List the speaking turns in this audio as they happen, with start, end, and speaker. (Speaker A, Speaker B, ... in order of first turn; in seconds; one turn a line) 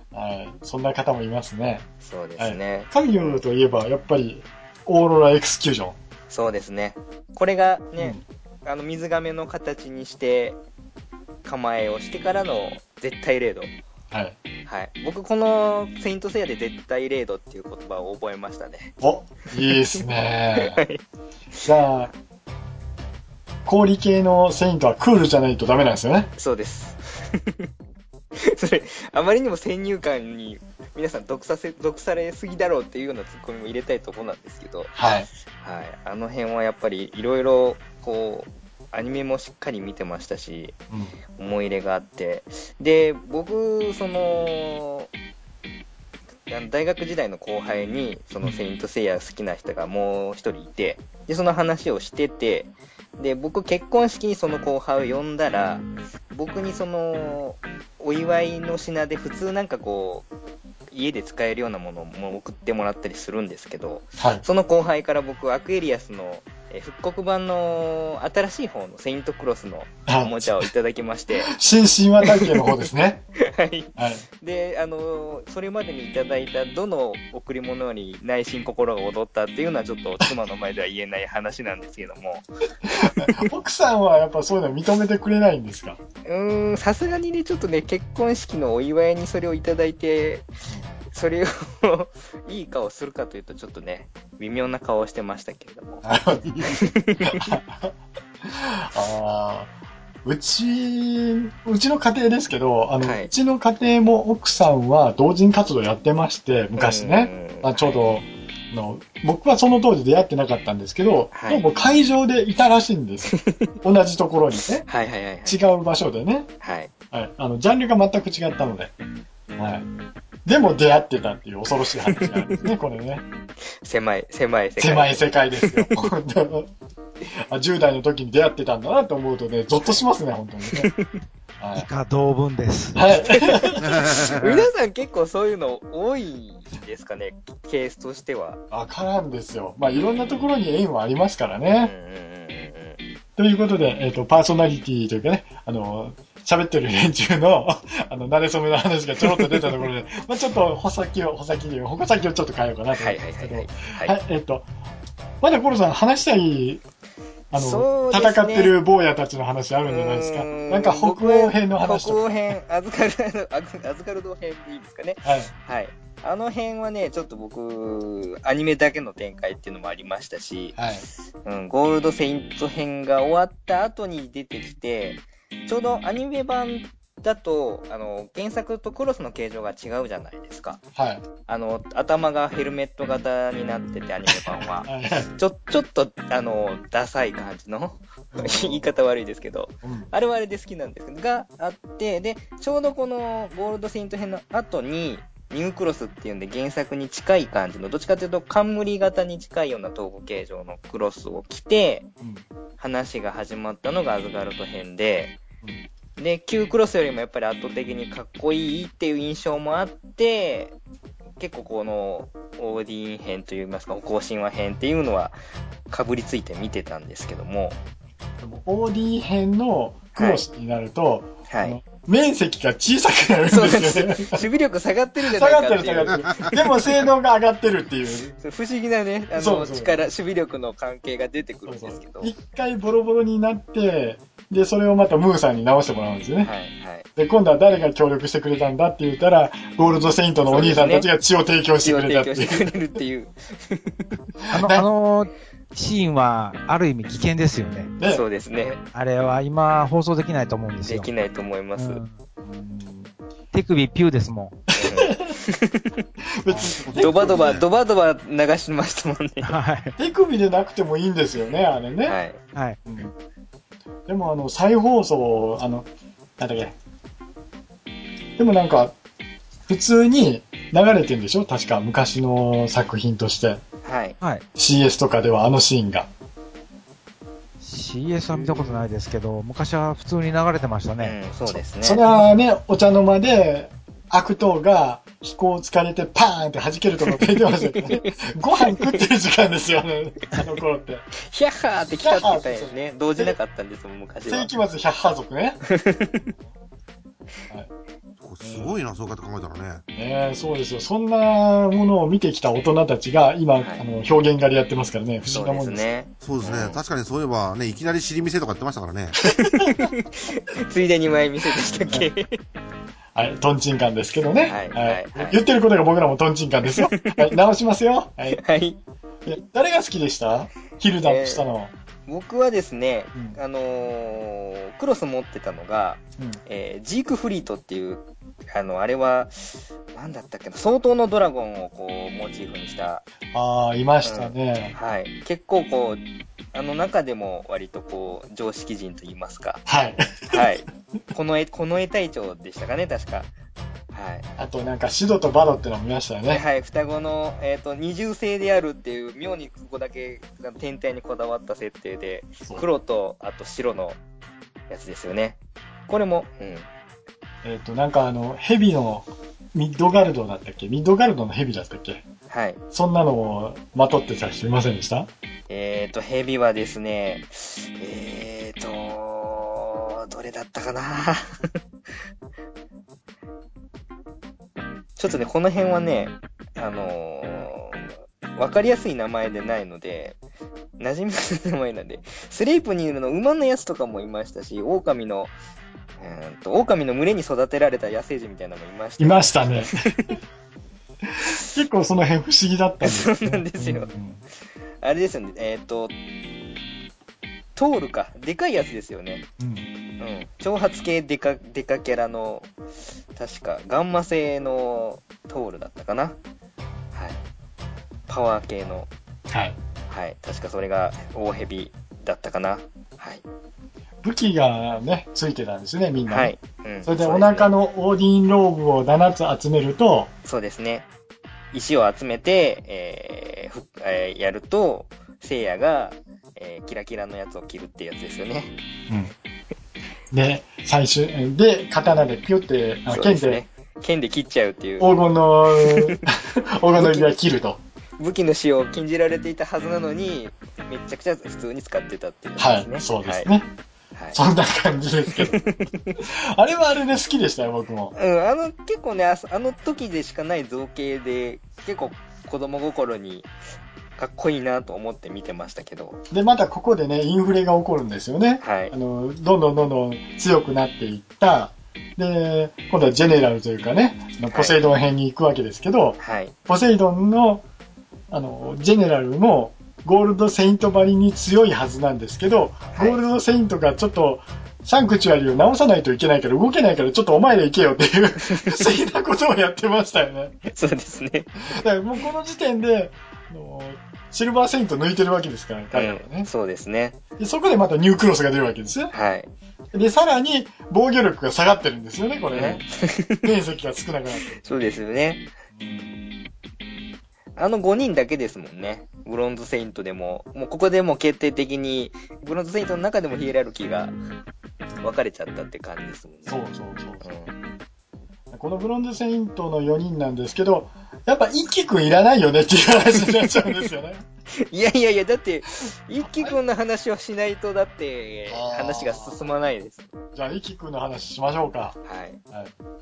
Speaker A: 0.1-1.9
Speaker B: 2.0-3.4
Speaker A: 2.4-6.0
Speaker B: 6.3-10.6
Speaker A: 8.0-8.2
Speaker B: 11.4-13.7
Speaker A: 14.1-14.3
Speaker B: 14.7-18.9
Speaker A: 19.0-20.8
Speaker B: 20.5-21.0
Speaker A: 21.6-22.1
Speaker A: 23.6-26.3
Speaker B: 26.4-27.7
Speaker B: 28.3-34.9
Speaker A: 35.0-35.3
Speaker B: 35.6-40.8
Speaker B: 41.4-45.1
Speaker B: 46.5-60.3
Speaker B: 60.9-71.5
Speaker A: 64.2-64.4
Speaker A: 70.1-70.7
Speaker A: 71.4-73.2
Speaker B: 72.2-72.7
Speaker B: 73.4-82.4
Speaker A: 74.0-74.2
Speaker A: 82.8-86.0
Speaker B: 83.0-83.4
Speaker B: 86.2-90.5
Speaker B: 91.1-96.0
Speaker A: 96.0-97.9
Speaker B: 96.7-97.5
Speaker A: 98.4-99.7
Speaker A: 100.2-114.8
Speaker B: 103.0-103.3
Speaker B: 106.8-108.0
Speaker B: 111.3-111.6
Speaker B: 113.3-113.7
Speaker B: 114.9-115.6
Speaker A: 115.5-116.5
Speaker B: 116.6-116.9
Speaker A: 117.1-118.9
Speaker A: 119.5-119.8
Speaker A: 120.5-123.2
Speaker B: 122.1-122.6
Speaker B: 123.8-125.9
Speaker A: 124.8-126.7
Speaker A: 127.3-130.9
Speaker B: 130.7-131.1
Speaker A: 131.6-131.9
Speaker C: 131.7-133.1
Speaker A: 132.9-134.0
Speaker B: 133.3-138.6
Speaker D: 133.8-134.5
Speaker A: 138.7-141.9
Speaker B: 141.8-143.0
Speaker A: 143.4-154.7
Speaker B: 149.3-149.6
Speaker B: 152.9-154.1
Speaker A: 155.4-156.8
Speaker B: 157.5-158.7
Speaker A: 157.5-162.6
Speaker B: 159.9-170.8
Speaker A: 165.2-165.5
Speaker A: 170.8-171.1
Speaker B: 171.4-180.8
Speaker A: 180.9-181.2
Speaker B: 181.5-202.1
Speaker A: 184.3-185.3
Speaker A: 188.3-188.9
Speaker A: 189.8-190.1
Speaker B: 202.8-205.4
Speaker B: 206.2-210.8
Speaker B: 211.4-215.4
Speaker B: 215.9-217.8
Speaker A: 218.4-224.4
Speaker B: 220.2-220.4
Speaker B: 221.5-221.8
Speaker B: 223.5-227.1
Speaker A: 225.2-228.3
Speaker B: 228.4-232.3
Speaker A: 229.3-229.9
Speaker A: 231.7-236.5
Speaker B: 236.4-237.1
Speaker A: 237.2-242.7
Speaker B: 240.4-241.1
Speaker B: 241.8-244.0
Speaker C: 244.5-247.9
Speaker A: 244.6-244.8
Speaker B: 248.0-248.8
Speaker C: 248.9-251.1
Speaker B: 250.8-252.0
Speaker C: 251.8-252.1
Speaker A: 252.4-253.1
Speaker C: 253.5-254.6
Speaker B: 254.8-255.9
Speaker A: 254.8-255.3
Speaker A: 256.4-257.6
Speaker B: 256.9-259.5
Speaker D: 257.0-257.6
Speaker C: 259.4-259.9
Speaker A: 260.0-262.2
Speaker B: 262.1-262.4
Speaker A: 262.9-263.1
Speaker A: 264.1-265.9
Speaker A: 266.4-266.7
Speaker A: 268.4-268.9
Speaker A: 269.7-273.6
Speaker B: 273.8-274.2
Speaker A: 274.6-276.1
Speaker C: 277.6-281.1
Speaker B: 281.0-282.0
Speaker A: 281.8-291.1
Speaker B: 287.6-289.0
Speaker B: 291.2-294.5
Speaker A: 291.8-293.4
Speaker A: 294.3-295.6
Speaker B: 295.7-296.3
Speaker D: 298.2-299.8
Speaker A: 298.4-298.7
Speaker A: 299.9-305.9
Speaker B: 305.3-306.8
Speaker D: 306.2-309.1
Speaker B: 309.2-312.4
Speaker A: 309.2-309.9
Speaker A: 313.1-318.4
Speaker B: 314.4-315.4
Speaker B: 316.7-317.4
Speaker B: 318.3-318.8
Speaker A: 319.2-321.7
Speaker B: 321.0-321.4
Speaker B: 322.1-333.0
Speaker A: 333.3-334.7
Speaker B: 334.0-339.6
Speaker A: 339.6-340.4
Speaker B: 340.3-343.3
Speaker B: 343.9-344.3
Speaker A: 344.4-346.4
Speaker B: 346.3-354.0
Speaker B: 354.7-356.7
Speaker A: 357.4-362.0
Speaker B: 362.3-362.6
Speaker A: 362.7-365.1
Speaker B: 365.5-371.5
Speaker B: 375.0-380.2
Speaker B: 380.8-385.3
Speaker B: 386.0-390.2
Speaker A: 389.0-389.8
Speaker A: 391.1-394.2
Speaker B: 392.8-393.9
Speaker B: 394.8-395.9
Speaker B: 397.6-399.2
Speaker A: 399.4-399.7
Speaker B: 400.0-402.5
Speaker B: 403.1-406.1
Speaker B: 406.9-407.2
Speaker B: 408.1-408.9
Speaker A: 409.3-409.6
Speaker B: 409.9-413.2
Speaker A: 414.0-416.3
Speaker B: 416.1-417.5
Speaker A: 416.8-420.1
Speaker B: 420.2-420.9
Speaker B: 421.5-428.6
Speaker A: 430.1-433.4
Speaker B: 432.9-434.9
Speaker A: 434.8-437.6
Speaker B: 435.6-436.0
Speaker B: 436.8-437.2
Speaker B: 438.0-443.3
Speaker A: 442.4-443.5
Speaker B: 443.9-444.2
Speaker A: 444.1-445.4
Speaker B: 445.1-446.0
Speaker A: 446.1-447.9
Speaker B: 447.9-453.3
Speaker B: 454.0-456.0
Speaker A: 456.1-467.4
Speaker B: 458.4-458.7
Speaker B: 464.3-464.6
Speaker B: 466.0-466.3
Speaker A: 468.1-480.5
Speaker B: 472.7-473.0
Speaker B: 478.3-478.6
Speaker B: 480.5-481.5
Speaker A: 481.4-486.3
Speaker B: 485.7-487.0
Speaker A: 487.2-488.9
Speaker B: 488.9-489.3
Speaker A: 489.7-494.4
Speaker B: 492.3-493.3
Speaker B: 494.4-495.3
Speaker A: 495.5-495.9
Speaker B: 497.4-503.9
Speaker B: 504.8-506.4
Speaker A: 506.3-507.1
Speaker B: 507.0-507.3
Speaker A: 508.3-514.0
Speaker B: 513.0-513.5
Speaker B: 514.3-519.9
Speaker A: 516.0-516.4
Speaker A: 518.3-519.3
Speaker A: 520.1-521.8
Speaker B: 521.8-522.2